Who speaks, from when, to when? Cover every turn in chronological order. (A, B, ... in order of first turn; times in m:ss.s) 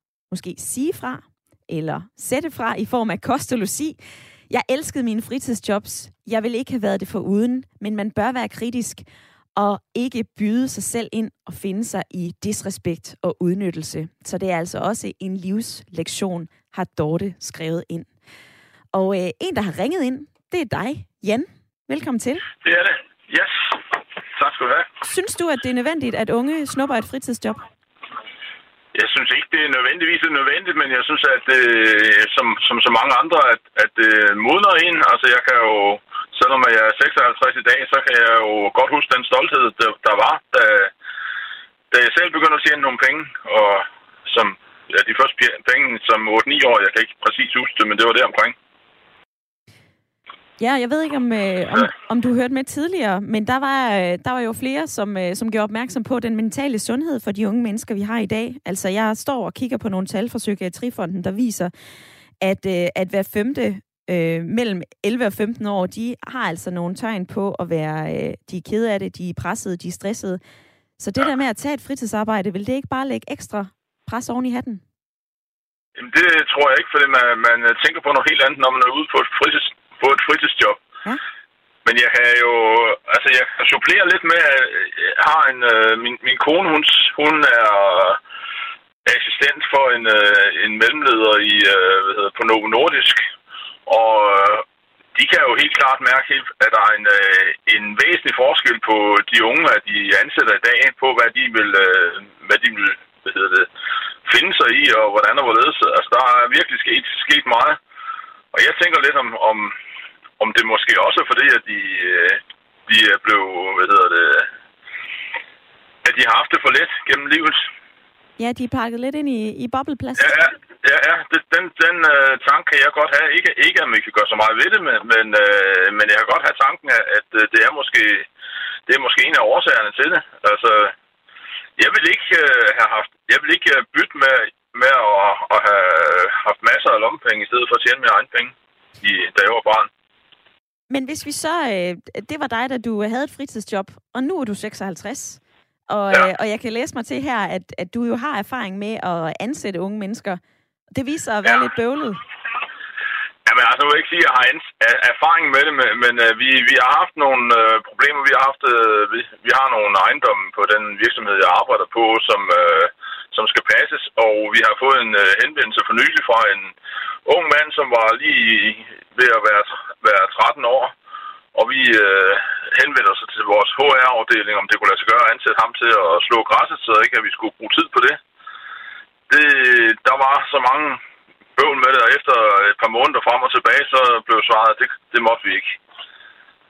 0:00.3-0:04.0 A
0:04.5-0:09.0 A
0:09.6-0:18.1 A
0:18.9-0:22.5 A
0:22.6-0:23.8 B
0:24.4-0:24.9 B
0:25.0-0:27.6 A
0:28.9-0:40.9 B
0:41.9-0:48.6 B
0:50.6-1:01.7 A
1:02.4-1:10.4 A
1:11.0-1:14.8 A
1:16.0-1:20.8 B
1:21.8-1:28.2 B
1:29.0-1:33.2 B
1:33.8-1:43.7 B
1:44.2-1:47.8 B
1:48.5-1:49.7 B
1:50.4-1:54.5 B
1:56.0-1:57.7 B
1:58.4-2:00.3 A
2:00.2-2:08.3 B
2:08.9-2:10.9 B
2:11.8-2:19.9 B
2:20.9-2:30.4 A
2:30.9-2:32.2 A
2:33.4-2:46.7 B
2:47.2-2:50.9 B
2:51.5-2:58.2 B
2:59.3-3:01.0 B
3:01.6-3:05.8 B